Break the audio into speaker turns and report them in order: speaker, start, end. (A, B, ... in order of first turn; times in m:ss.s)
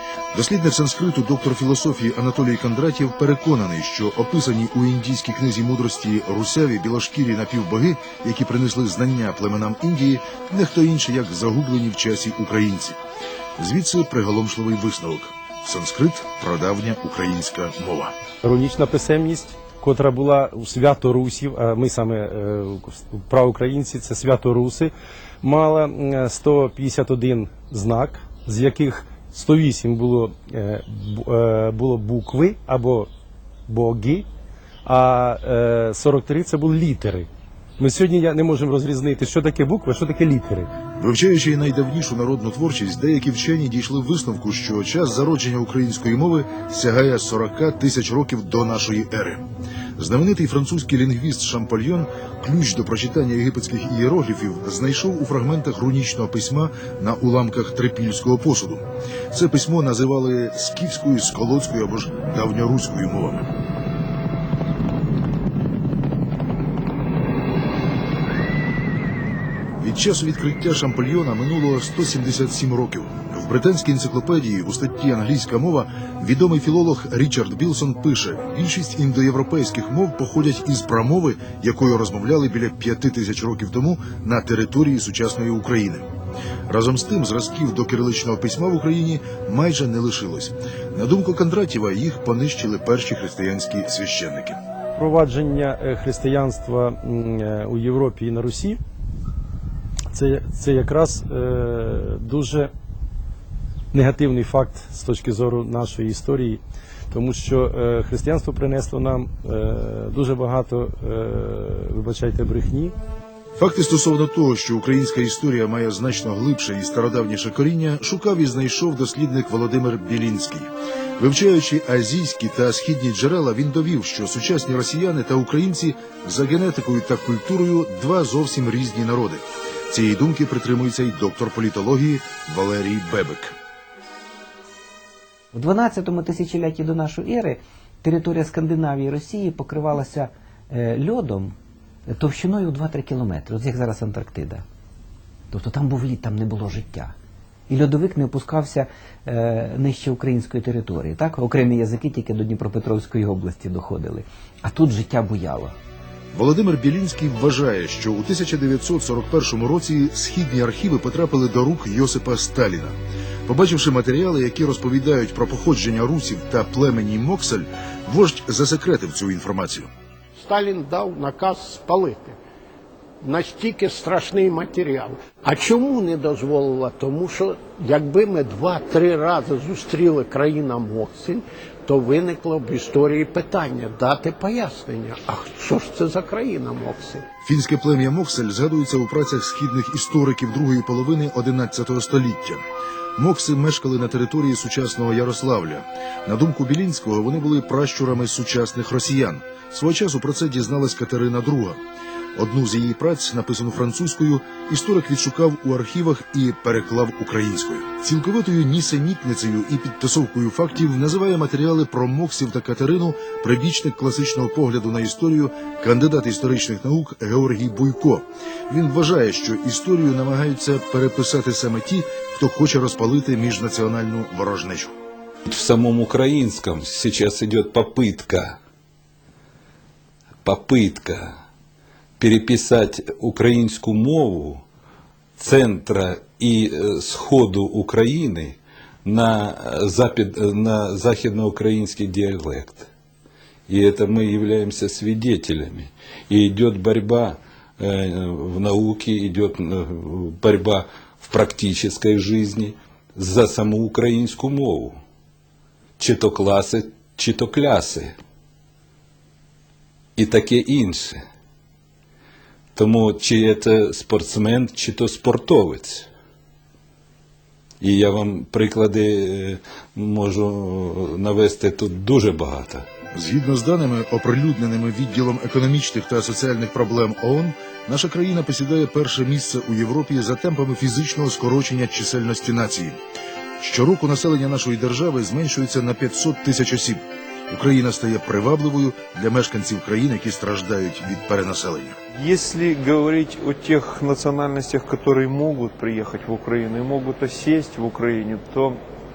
0:00.3-0:13.0 A
0:13.6-0:18.1 A
0:18.4-0:33.1 B
0:33.7-0:34.2 B
0:34.8-0:37.3 B
0:37.8-0:40.7 B
0:41.0-0:49.4 A
0:50.0-1:03.5 A
1:09.8-1:26.1 A
1:26.7-1:34.6 A
1:34.9-1:38.8 B
1:40.1-1:42.7 B
1:43.9-1:52.9 B
1:53.6-2:13.5 A
2:15.5-2:21.5 C
2:22.1-2:24.6 C
2:25.5-2:27.1 C
2:27.7-2:35.8 C
2:36.3-2:49.9 A
2:50.3-2:52.4 D
2:53.2-3:07.2 D
3:07.4-3:12.6 A
3:13.2-3:21.8 A
3:22.4-3:44.9 A
3:45.4-3:48.6 E
3:50.4-3:51.4 E
3:52.2-3:54.6 E
3:55.4-4:02.9 E
4:03.7-4:15.0 E
4:16.0-4:18.1 E
4:20.2-4:21.2 E
4:22.7-4:26.1 E
4:27.8-4:32.9 E
4:33.1-4:43.0 A
4:43.6-4:52.0 A
4:52.1-4:58.8 F